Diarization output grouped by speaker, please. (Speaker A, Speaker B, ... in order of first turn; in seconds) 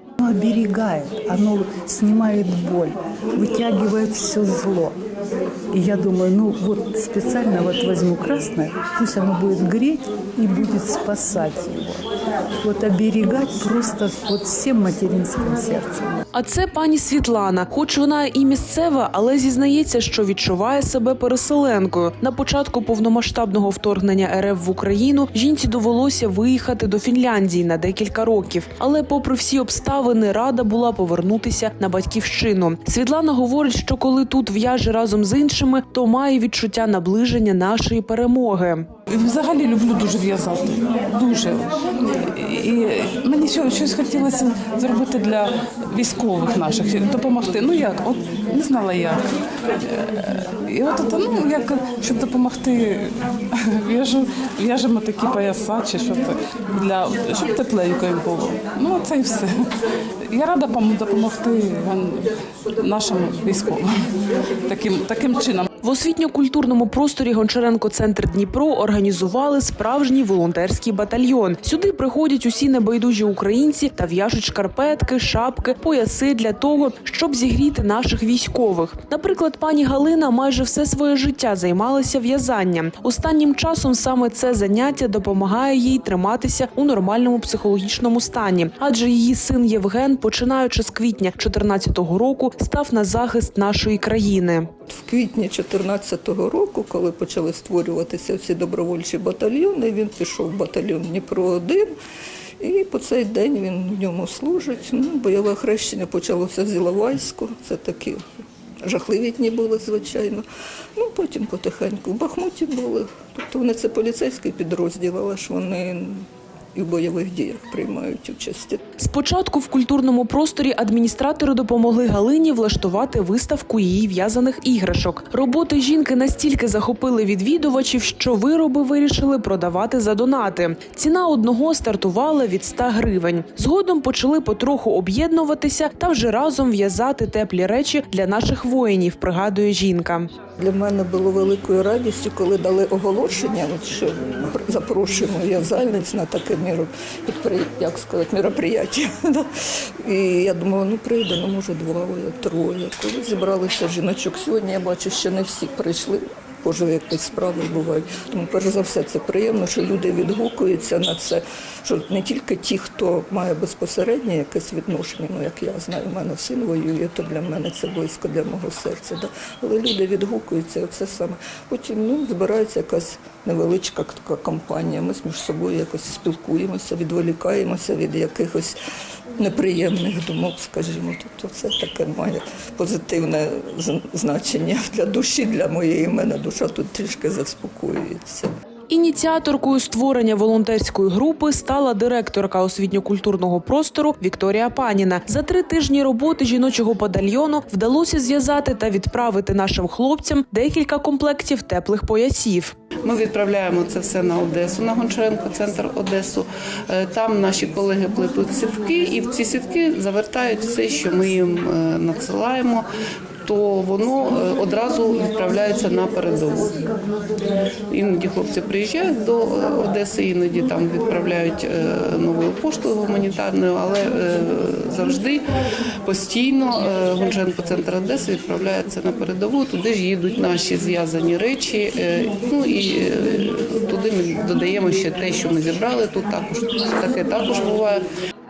Speaker A: 0.2-5.0, 5.7-12.0, 12.6-16.2
Speaker B: 16.3-38.9, 65.8-94.7, 119.0-140.3, 188.9-202.7
Speaker C: 39.1-41.7, 42.2-49.2, 49.8-59.7, 60.3-64.0, 64.7-65.7
Speaker D: 94.9-101.9, 102.6-108.2, 108.8-110.5, 111.0-118.8, 140.6-149.5, 150.0-178.7, 179.4-188.5
Speaker E: 203.1-212.8, 213.4-216.8, 217.9-225.4, 226.0-238.1